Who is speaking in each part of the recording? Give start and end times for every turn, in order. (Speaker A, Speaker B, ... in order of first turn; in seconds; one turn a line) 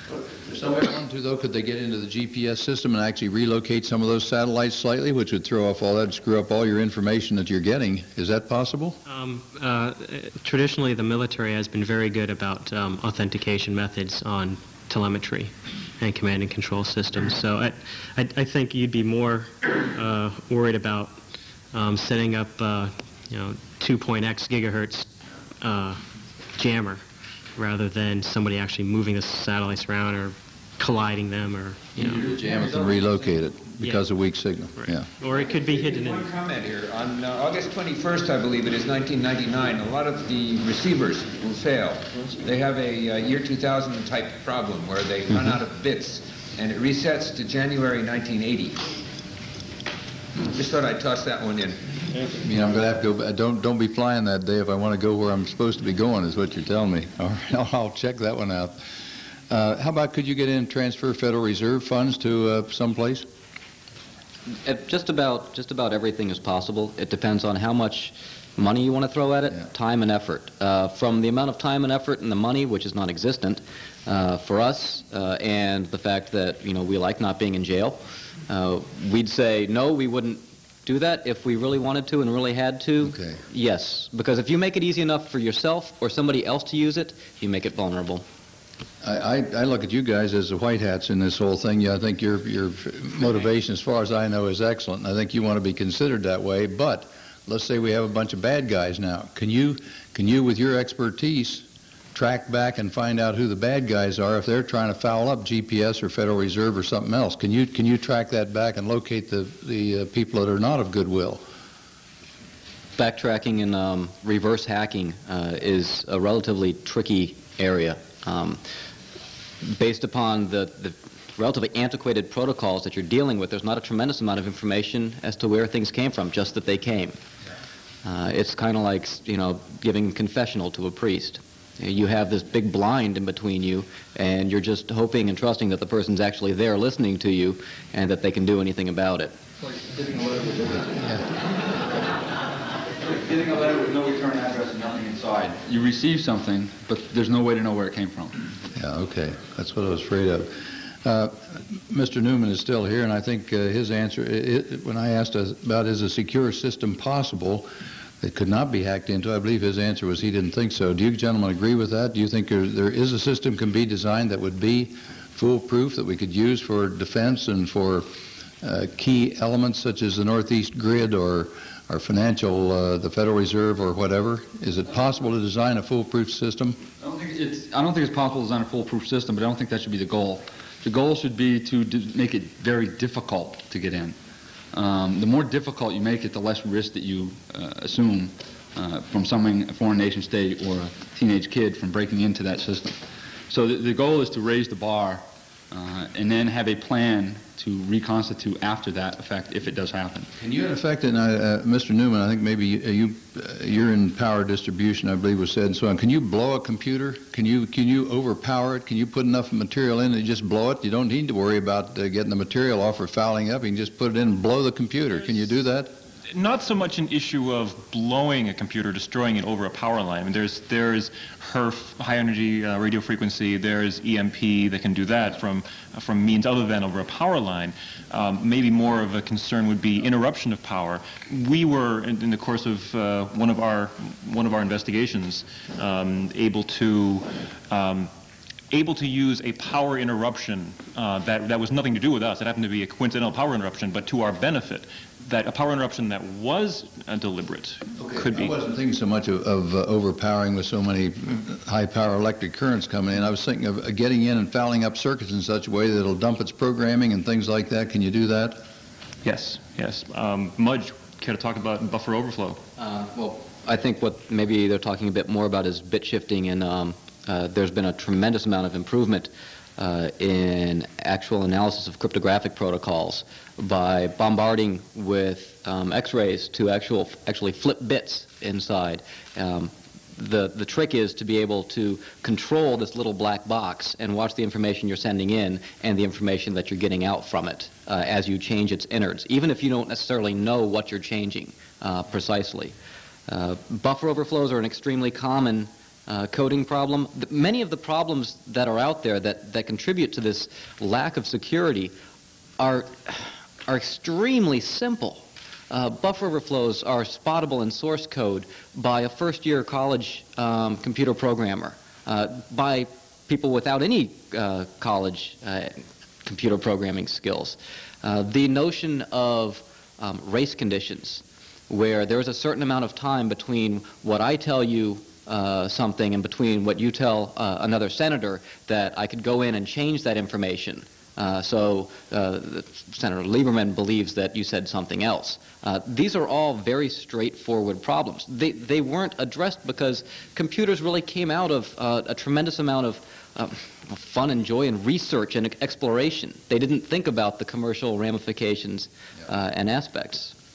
Speaker A: 0.3-9.0
Speaker B: 9.1-21.2
Speaker B: 21.7-25.1
Speaker B: 25.6-27.0
Speaker B: 27.6-32.2
Speaker A: 32.0-35.1
Speaker C: 32.0-33.4
Speaker B: 33.8-34.1
Speaker B: 34.8-36.3
Speaker D: 35.2-48.9
Speaker D: 50.5-52.4
Speaker A: 52.4-63.3
Speaker E: 64.6-88.2
Speaker A: 83.0-83.4
Speaker A: 89.0-111.4
Speaker E: 113.0-118.6
Speaker E: 119.6-127.2
Speaker E: 128.0-139.3
Speaker C: 139.6-141.2
Speaker C: 143.0-148.4
Speaker A: 148.8-157.7
Speaker A: 158.2-176.8
Speaker C: 177.0-184.2
Speaker C: 184.7-200.3
Speaker A: 200.4-215.9
Speaker F: 216.3-238.1
Speaker F: 238.7-248.6
Speaker A: 247.9-258.6
Speaker F: 259.2-262.6
Speaker E: 262.8-292.7
Speaker E: 293.3-301.9
Speaker E: 302.6-350.4